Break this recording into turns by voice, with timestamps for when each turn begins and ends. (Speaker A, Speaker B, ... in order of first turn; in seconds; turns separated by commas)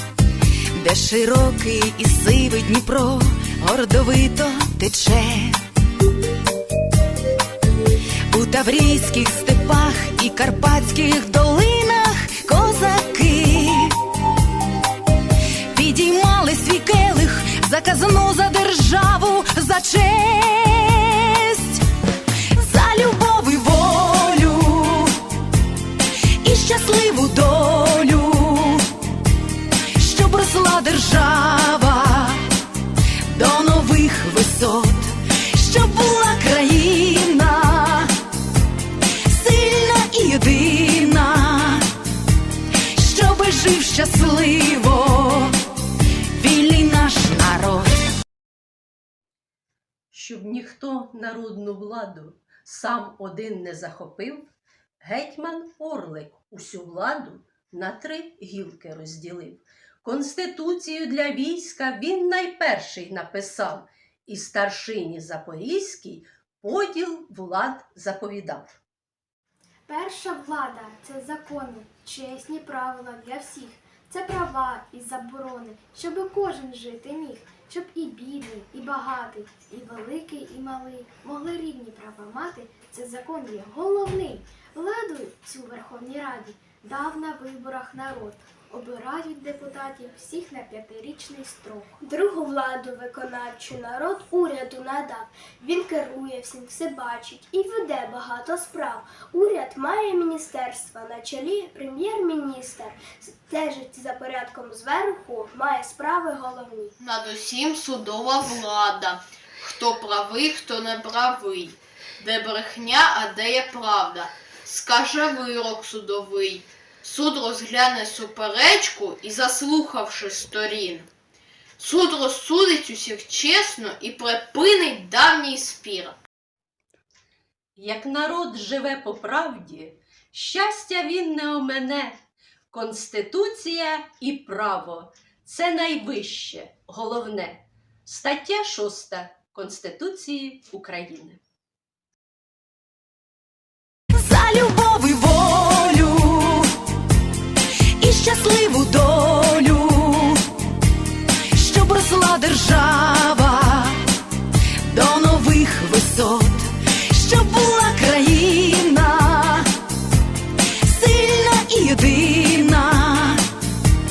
Speaker A: 0.8-5.6, Speaker A: 8.3-14.0, Speaker A: 15.7-21.8, Speaker A: 22.5-25.2, Speaker A: 26.4-29.0, Speaker A: 29.9-32.5, Speaker A: 33.3-38.1, Speaker A: 39.1-41.9, Speaker A: 42.9-45.5, Speaker A: 46.3-48.1, Speaker B: 50.1-54.5, Speaker B: 55.0-68.8, Speaker C: 69.9-91.9, Speaker D: 92.0-107.0, Speaker E: 107.0-121.1, Speaker E: 121.8-126.1, Speaker B: 127.8-132.2, Speaker B: 132.7-141.4, Speaker A: 144.1-146.7, Speaker A: 148.0-150.5, Speaker A: 151.5-154.0, Speaker A: 154.8-159.7, Speaker A: 160.8-163.4